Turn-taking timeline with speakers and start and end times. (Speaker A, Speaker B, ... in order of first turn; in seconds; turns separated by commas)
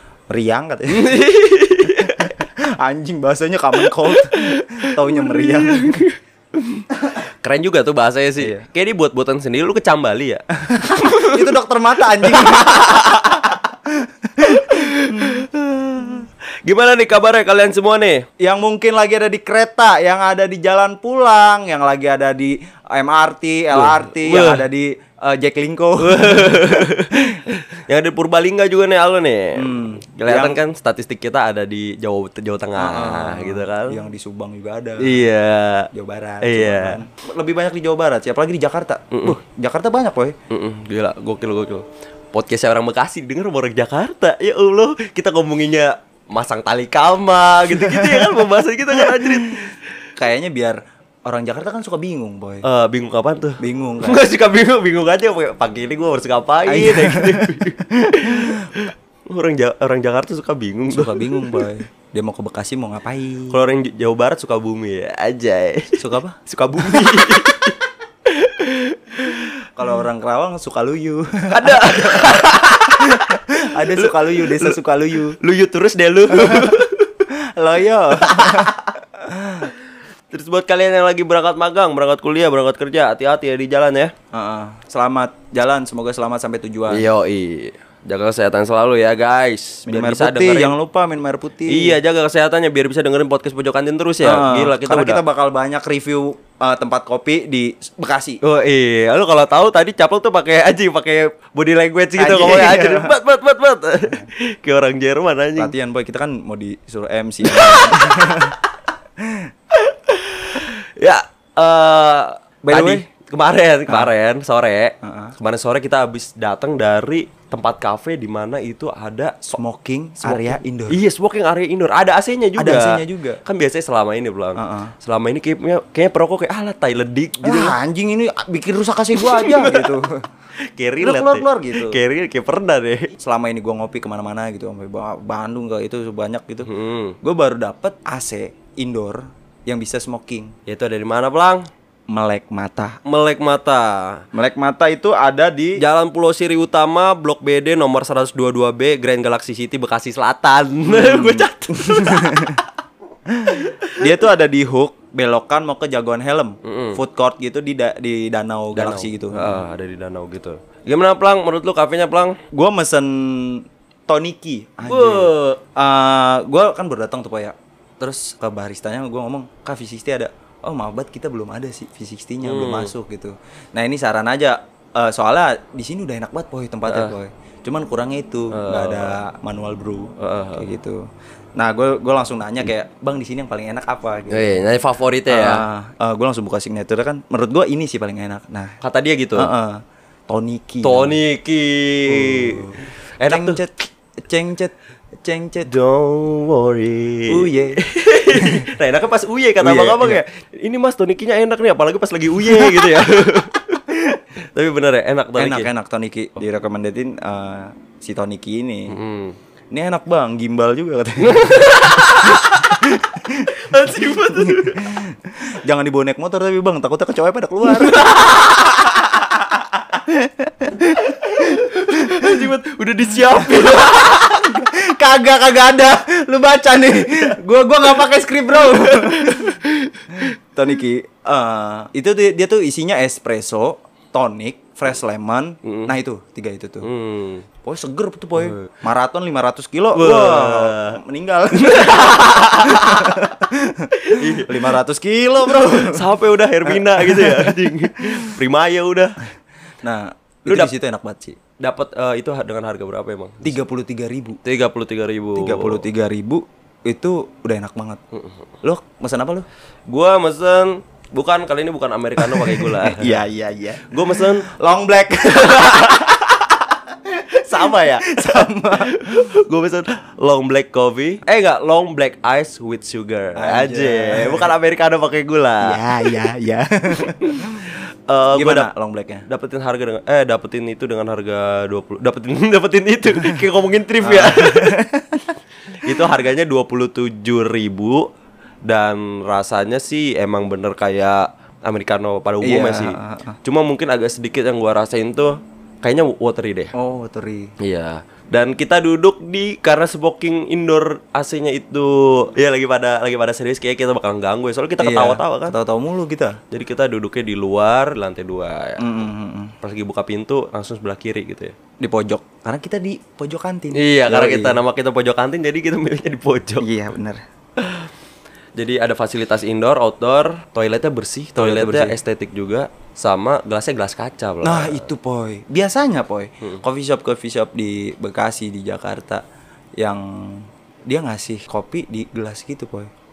Speaker A: 0.3-1.2, Speaker B: 0.9-2.4, Speaker A: 2.0-6.0, Speaker B: 3.8-11.5, Speaker A: 8.4-8.7, Speaker A: 10.6-16.3, Speaker B: 12.1-13.1, Speaker B: 14.4-15.4, Speaker B: 16.6-18.3, Speaker A: 18.4-27.4, Speaker B: 23.7-24.6, Speaker B: 26.0-34.0, Speaker A: 29.6-30.6, Speaker A: 32.8-35.3, Speaker B: 35.0-35.9, Speaker A: 35.9-40.4, Speaker B: 36.4-37.0, Speaker B: 39.1-39.4, Speaker B: 40.5-49.9, Speaker A: 47.7-52.6, Speaker B: 52.6-61.7, Speaker A: 53.6-54.2, Speaker A: 56.7-58.7, Speaker A: 60.9-63.7, Speaker B: 63.5-69.7, Speaker A: 66.0-67.2, Speaker A: 69.7-75.4, Speaker B: 71.5-74.8, Speaker B: 75.4-77.3, Speaker A: 76.3-76.8, Speaker A: 77.3-79.7, Speaker B: 78.2-78.8, Speaker B: 80.3-84.1, Speaker A: 84.3-87.1, Speaker B: 86.9-90.7, Speaker A: 89.9-92.0, Speaker B: 91.7-95.2, Speaker A: 94.2-98.4, Speaker B: 98.4-105.7, Speaker A: 102.2-103.2, Speaker A: 105.6-108.6, Speaker B: 107.5-108.5, Speaker A: 109.2-109.5, Speaker B: 109.7-119.6, Speaker A: 112.6-113.0, Speaker A: 115.0-115.3, Speaker A: 119.5-121.0, Speaker B: 120.2-127.8, Speaker A: 122.6-123.4, Speaker A: 124.6-124.9, Speaker A: 127.4-130.3, Speaker B: 129.2-130.0, Speaker B: 130.7-133.1, Speaker A: 131.0-132.0, Speaker A: 133.2-136.7, Speaker B: 136.7-137.2, Speaker A: 137.2-140.5, Speaker B: 140.7-141.7, Speaker A: 142.1-143.0, Speaker B: 143.1-144.3, Speaker A: 144.3-145.8, Speaker B: 145.8-152.6, Speaker A: 150.9-152.6, Speaker A: 153.3-159.6, Speaker B: 153.5-154.0, Speaker B: 156.6-157.0, Speaker B: 158.8-162.4, Speaker A: 162.5-181.0, Speaker B: 164.8-165.6, Speaker B: 172.4-172.9, Speaker B: 176.9-177.2, Speaker B: 178.5-179.2, Speaker B: 180.2-180.7, Speaker A: 181.6-184.7, Speaker B: 184.3-185.7, Speaker A: 185.3-188.8, Speaker B: 188.8-189.5, Speaker A: 189.4-191.2, Speaker B: 190.8-193.6, Speaker A: 192.1-195.7, Speaker B: 195.7-203.8, Speaker A: 197.3-198.7, Speaker A: 199.6-200.2, Speaker A: 202.5-202.9, Speaker A: 203.9-204.2, Speaker B: 204.5-205.7, Speaker A: 205.4-209.0, Speaker B: 208.9-209.4, Speaker A: 209.7-222.5, Speaker B: 211.2-212.9, Speaker B: 213.4-215.0, Speaker B: 217.7-218.7, Speaker B: 221.0-224.6, Speaker A: 223.3-229.6, Speaker B: 228.7-230.3, Speaker A: 230.2-236.9, Speaker B: 235.6-235.9, Speaker B: 236.8-237.4, Speaker A: 237.6-246.1, Speaker B: 238.4-238.7, Speaker B: 239.9-241.0, Speaker B: 241.5-243.4, Speaker B: 243.9-244.8, Speaker B: 245.4-249.2, Speaker A: 246.6-248.4, Speaker A: 249.8-251.4, Speaker B: 251.6-253.6, Speaker A: 253.4-254.4, Speaker B: 254.4-255.9, Speaker A: 255.4-258.0, Speaker B: 258.1-258.4, Speaker A: 258.6-259.5, Speaker B: 259.9-263.2, Speaker A: 262.2-269.3, Speaker B: 263.9-264.5, Speaker B: 265.2-266.1, Speaker B: 267.3-276.1, Speaker A: 273.4-274.5, Speaker A: 275.6-277.8, Speaker B: 276.9-278.7, Speaker A: 278.3-279.3, Speaker B: 279.3-284.8, Speaker A: 284.0-285.3, Speaker B: 285.7-288.1, Speaker B: 288.7-296.7, Speaker A: 292.4-293.4, Speaker A: 296.7-297.5, Speaker B: 297.6-305.6, Speaker A: 304.8-306.4, Speaker B: 306.5-308.9, Speaker A: 308.8-309.5, Speaker B: 309.6-311.6, Speaker A: 311.8-314.6, Speaker B: 313.7-316.7, Speaker A: 316.6-317.2, Speaker B: 317.6-317.9, Speaker B: 318.6-324.9, Speaker A: 321.4-322.0, Speaker A: 324.4-329.2, Speaker A: 329.8-332.9